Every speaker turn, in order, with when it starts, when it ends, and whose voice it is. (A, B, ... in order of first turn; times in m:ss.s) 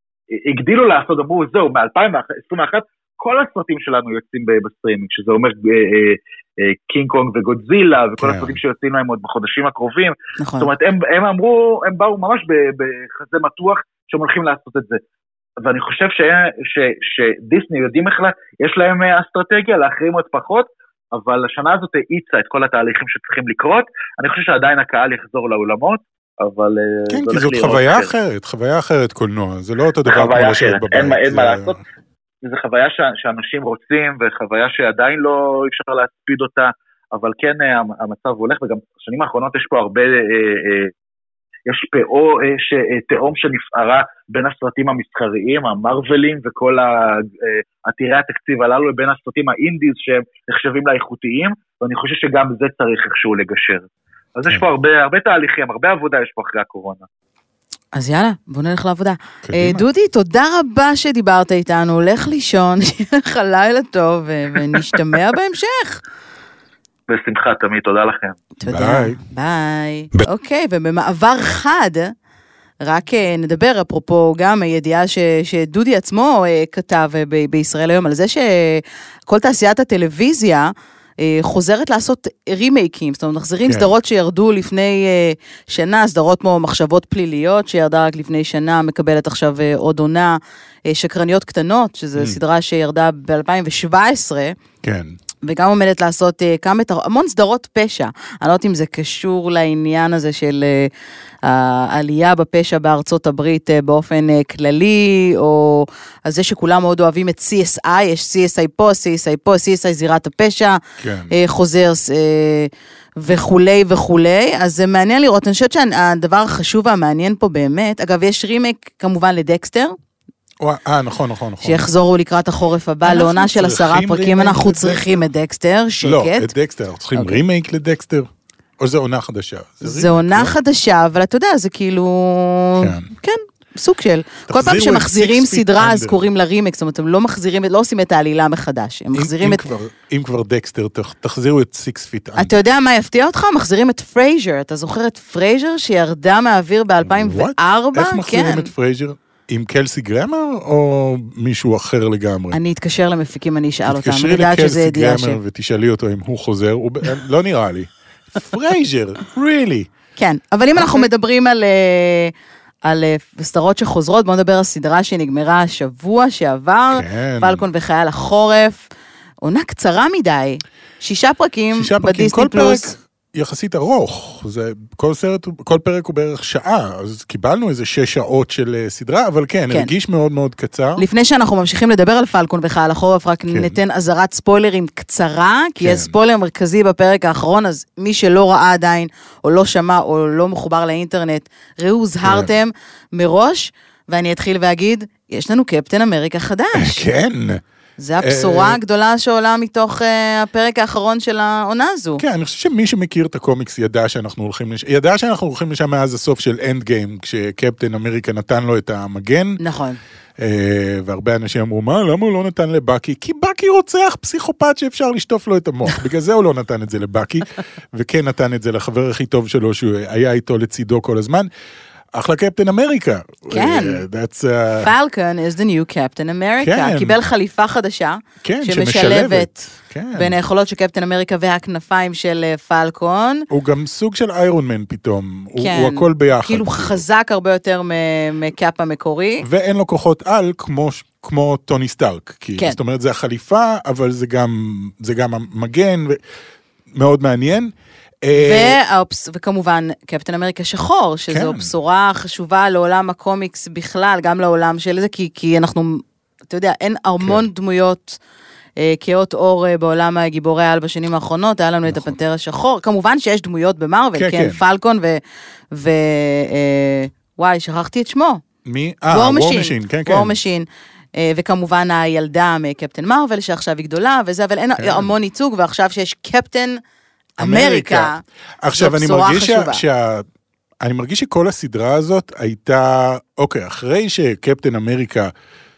0:00.3-0:15.0 A
0:08.2-0:08.6 B
0:10.4-0:10.7 C
0:15.6-0:28.1 A
0:27.1-0:31.8 B
0:30.0-0:31.8 A
0:32.4-0:40.9 A
0:41.7-0:57.0 A
0:57.9-1:06.0 C
0:59.4-0:59.8 B
1:07.1-1:08.4 A
1:08.6-1:12.1 C
1:08.6-1:09.2 B
1:12.8-1:34.5 C
1:34.8-1:35.1 B
1:35.4-1:40.9 C
1:41.4-1:50.8 C
1:51.0-1:51.3 B
1:51.3-2:00.0 C
2:00.6-2:01.9 B
2:01.6-2:06.5 C
2:03.0-2:05.2 B
2:06.0-2:08.3 B
2:07.1-2:07.4 C
2:08.8-2:10.5 B
2:09.8-2:19.6 C
2:12.8-2:13.1 B
2:14.5-2:16.2 B
2:19.1-2:22.6 B
2:22.4-2:28.7 C
2:27.0-2:32.6 B
2:32.5-2:35.4 C
2:33.9-2:39.9 B
2:40.2-2:42.3 C
2:40.7-2:41.1 B
2:42.8-2:48.8 C
2:46.9-2:47.6 B
2:49.4-2:52.9 C
2:51.7-3:01.0 B
3:01.0-3:17.0 C
3:03.5-3:03.7 B
3:05.8-3:06.1 B
3:12.2-3:12.5 B
3:16.7-3:17.6 B
3:18.0-3:22.2 C
3:18.2-3:18.8 B
3:22.2-3:29.6 B
3:29.6-3:30.0 C
3:30.4-3:41.5 B
3:42.1-3:44.9 B
3:43.5-3:44.0 C
3:44.8-3:49.5 C
3:46.6-3:47.2 B
3:48.4-3:50.4 B
3:50.1-3:53.4 C
3:53.5-3:57.0 B
3:55.6-3:59.4 C
3:59.4-4:06.2 B
4:06.9-4:08.8 B
4:08.3-4:18.2 C
4:11.3-4:11.7 B
4:18.8-4:25.2 C
4:21.9-4:22.1 B
4:24.2-4:24.6 B
4:25.7-4:28.4 C
4:28.6-4:30.4 B
4:29.1-4:30.6 C
4:31.2-4:36.8 C
4:34.8-4:35.1 B
4:37.4-4:40.2 B
4:37.4-4:38.2 C
4:38.7-4:39.8 C
4:40.8-4:45.3 B